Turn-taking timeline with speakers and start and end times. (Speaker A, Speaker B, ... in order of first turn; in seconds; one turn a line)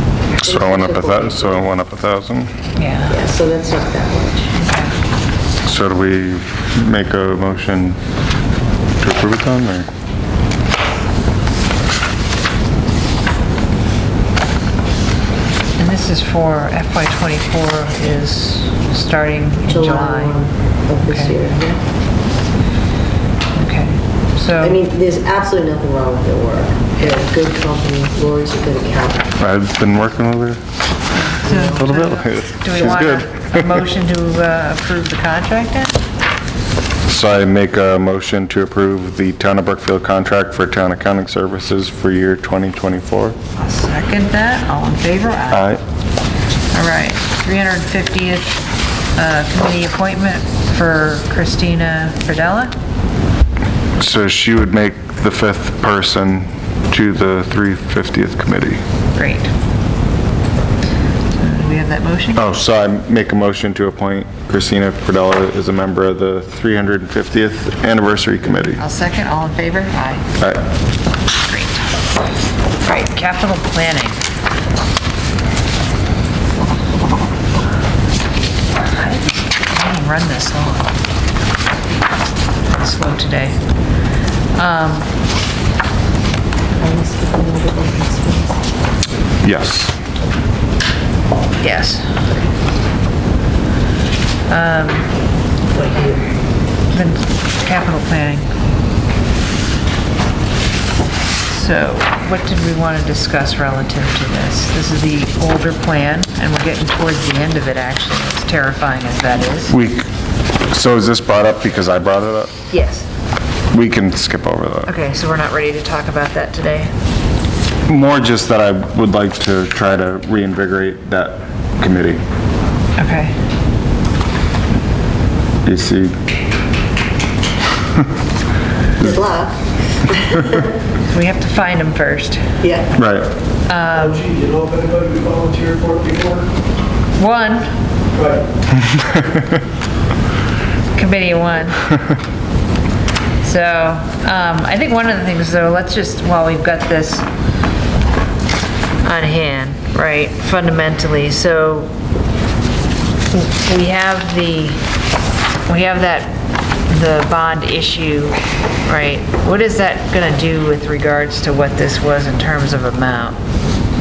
Speaker A: 0.4-2.5
Speaker B: 0.4-1.7
Speaker C: 2.8-3.2
Speaker B: 3.1-4.5
Speaker C: 4.6-4.9
Speaker A: 5.6-8.0
Speaker A: 9.0-9.9
Speaker C: 15.8-20.4
Speaker B: 19.6-21.8
Speaker C: 23.6-24.8
Speaker B: 24.6-29.4
Speaker A: 29.4-30.6
Speaker B: 31.2-31.8
Speaker C: 31.3-36.0
Speaker A: 31.7-33.8
Speaker A: 37.1-43.4
Speaker C: 43.6-45.7
Speaker A: 45.5-45.8
Speaker C: 46.7-48.6
Speaker C: 49.2-52.7
Speaker A: 54.0-58.8
Speaker C: 59.2-59.5
Speaker C: 61.4-62.4
Speaker A: 62.4-68.8
Speaker C: 68.8-70.2
Speaker C: 71.4-71.9
Speaker C: 72.8-74.2
Speaker C: 78.8-80.9
Speaker C: 82.7-83.6
Speaker C: 84.5-85.1
Speaker B: 86.8-88.6
Speaker A: 89.4-89.9
Speaker C: 91.6-92.1
Speaker C: 94.5-95.1
Speaker B: 95.7-96.2
Speaker C: 96.9-98.5
Speaker C: 101.5-109.7
Speaker A: 109.7-110.1
Speaker A: 110.7-112.5
Speaker C: 112.7-113.1
Speaker A: 113.7-114.9
Speaker C: 114.9-116.9
Speaker A: 117.9-122.2
Speaker C: 123.0-123.3
Speaker A: 125.6-126.2
Speaker B: 129.0-130.7
Speaker C: 131.1-132.6
Speaker B: 132.6-132.9
Speaker A: 132.9-133.3
Speaker C: 133.7-134.2
Speaker D: 134.1-136.5
Speaker C: 137.2-137.7
Speaker D: 138.2-138.4
Speaker C: 140.9-141.9
Speaker C: 143.4-147.3
Speaker C: 149.0-151.9
Speaker C: 153.3-154.8
Speaker C: 155.7-156.3
Speaker C: 156.9-163.4